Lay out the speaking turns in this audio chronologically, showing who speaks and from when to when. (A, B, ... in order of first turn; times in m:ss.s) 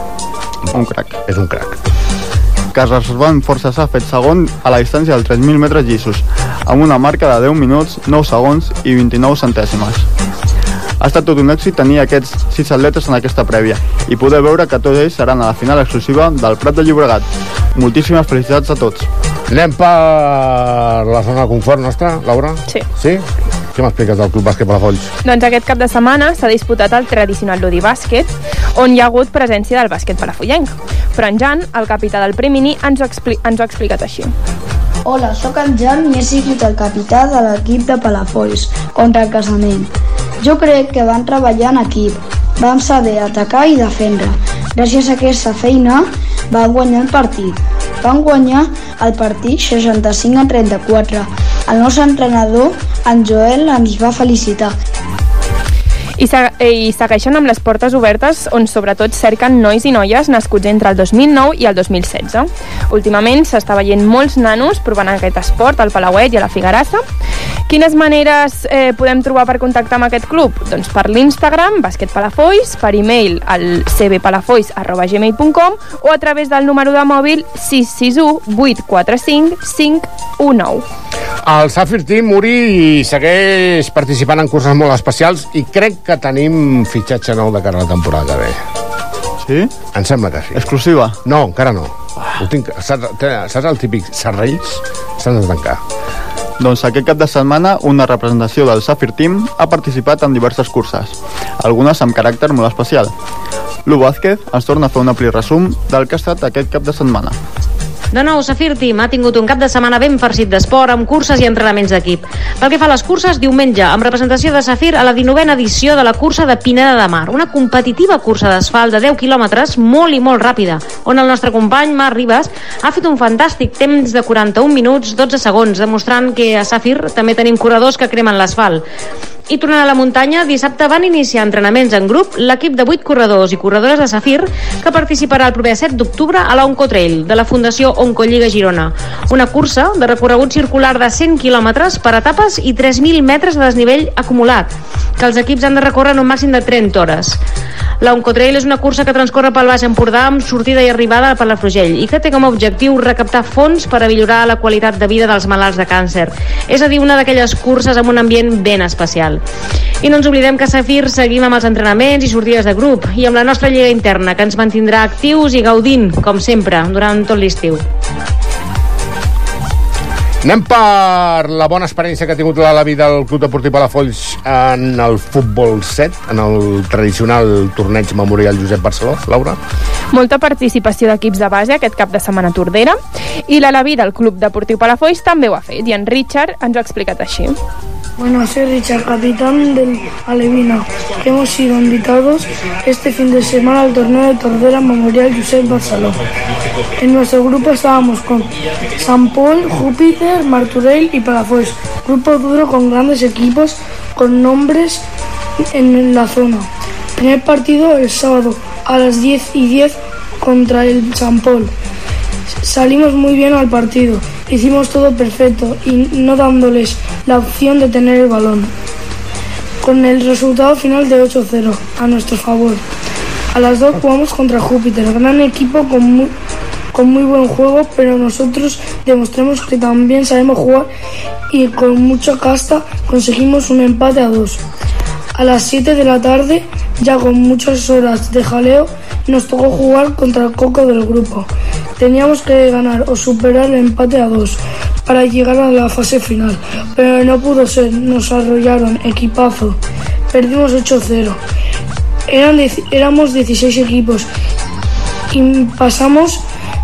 0:00.7-0:01.2 A
0:01.3-0:01.8 B
0:02.7-0:10.1 A
0:11.0-0:19.1 A
0:19.5-0:25.1 B
0:25.2-0:34.3 C
0:35.1-0:39.9 D
0:40.4-0:54.8 D
0:56.2-1:07.0 C
1:07.7-1:20.8 C
1:21.4-1:28.6 B
1:29.4-1:29.7 A
1:29.9-1:30.7 B
1:30.6-1:31.2 A
1:31.2-1:35.8 B
1:36.6-1:43.1 A
1:43.9-1:47.4 A
1:48.1-2:08.8 E
2:09.5-2:27.4 E
2:28.0-2:39.4 E
2:40.0-2:47.8 E
2:50.4-2:59.6 B
3:00.1-3:07.6 C
3:08.2-3:16.2 F
3:17.0-3:25.0 F
3:25.7-3:31.7 F
3:32.6-3:38.7 F
3:39.8-3:42.8 F
3:43.5-3:46.4 F
3:46.9-3:50.9 F
3:51.5-3:54.6 F
3:55.4-4:09.8 F
4:10.3-4:11.4 F
4:12.3-4:14.3 F
4:15.3-4:16.4 F